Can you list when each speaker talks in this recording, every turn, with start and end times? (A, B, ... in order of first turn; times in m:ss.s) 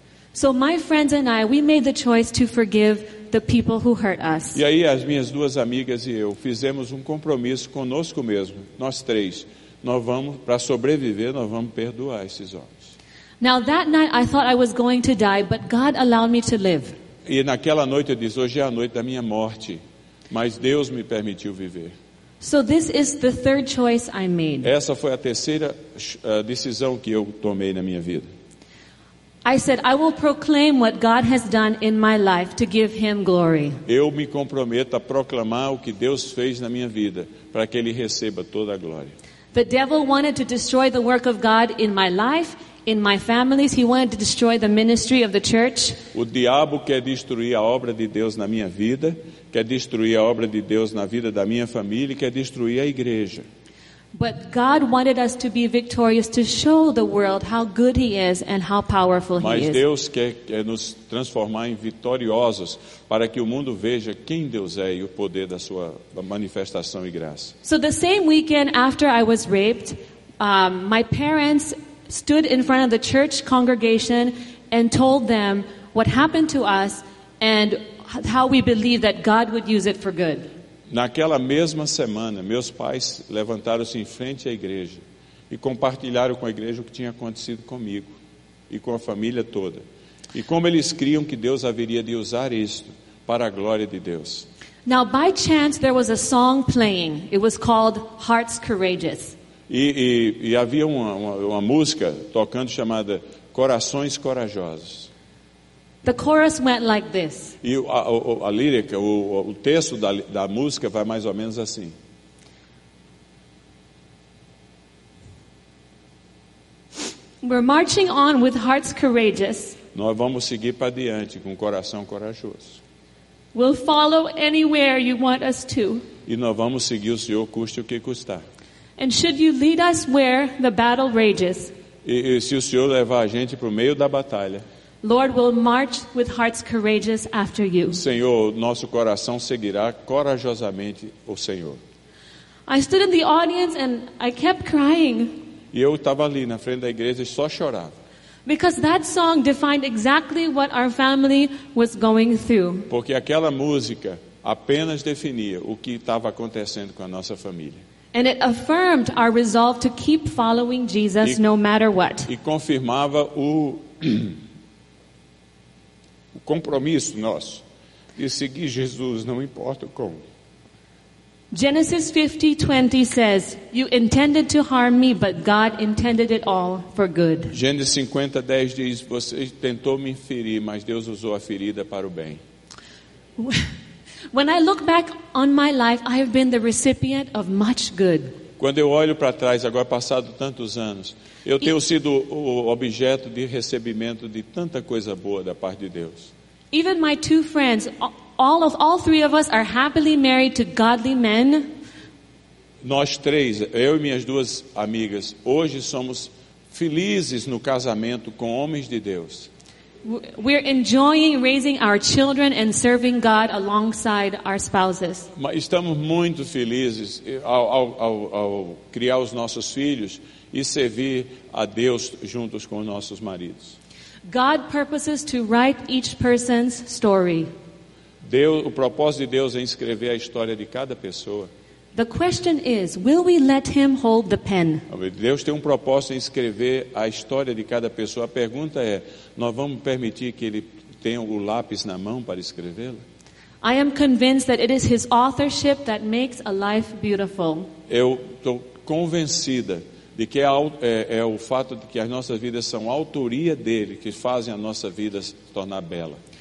0:00.3-0:04.6 A
0:04.5-0:12.9 B
0:13.4-0:17.0 A
0:17.2-0:21.9 B
0:22.4-0:24.7 A
0:24.6-0:28.3 B
0:29.4-0:33.8 A
0:33.8-0:39.1 B
0:39.5-0:46.0 A
0:46.1-0:53.4 B
0:54.1-0:59.8 A
0:59.4-1:07.5 B
1:07.6-1:20.5 A
1:20.9-1:28.1 B
1:28.7-1:34.5 B
1:34.8-1:39.3 A
1:39.7-1:45.1 B
1:46.0-1:47.6 A
1:47.6-1:52.0 B
1:57.4-1:59.8 A
1:59.9-2:02.8 B
2:03.5-2:06.1 A
2:06.2-2:08.4 B
2:09.0-2:11.7 A
2:12.0-2:14.6 B
2:15.0-2:18.0 A
2:17.9-2:21.8 B
2:22.7-2:25.4 A
2:25.7-2:27.9 B
2:28.4-2:32.9 A
2:32.9-2:37.8 B
2:38.1-2:42.3 A
2:42.2-2:44.4 B
2:46.3-2:47.6 B
2:48.2-2:50.2 B
2:51.5-2:57.5 A
2:57.5-3:02.4 B
3:03.4-3:03.7 A
3:04.3-3:08.4 A
3:08.6-3:16.3 B
3:16.7-3:21.7 A
3:22.8-3:29.5 B
3:30.0-3:35.3 A
3:35.3-3:43.8 B
3:44.3-3:47.5 A
3:48.2-3:51.5 B
3:51.9-3:54.8 A
3:54.9-4:03.0 B
4:03.6-4:07.7 A
4:07.9-4:16.2 B